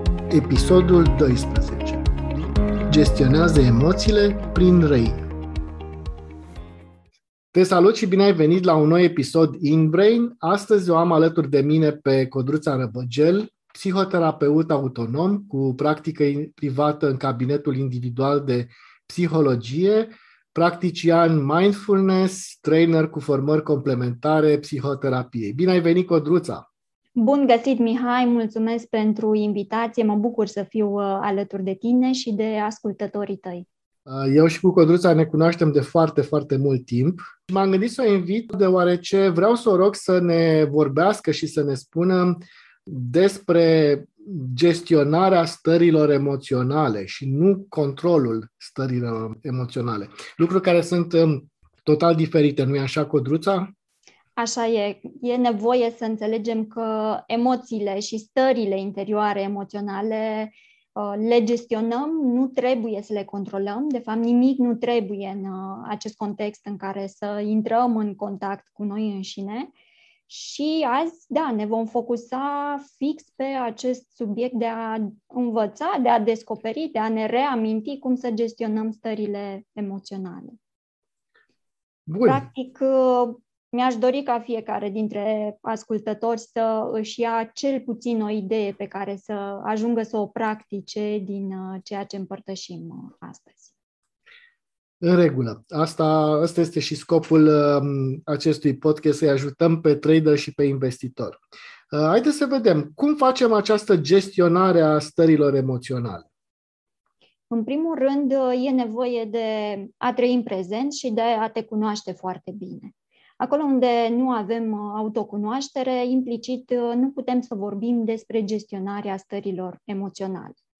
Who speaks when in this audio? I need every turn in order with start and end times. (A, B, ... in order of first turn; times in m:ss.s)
0:00.3-0:02.1 A
0:02.9-0:05.2 A
0:07.5-0:26.6 A
0:27.2-0:33.7 B
0:34.1-0:53.7 A
0:54.4-1:09.7 B
1:10.3-1:20.6 B
1:22.1-1:22.4 A
1:22.3-1:33.7 B
1:35.0-1:41.4 A
1:41.9-1:46.3 A
1:47.5-2:00.6 B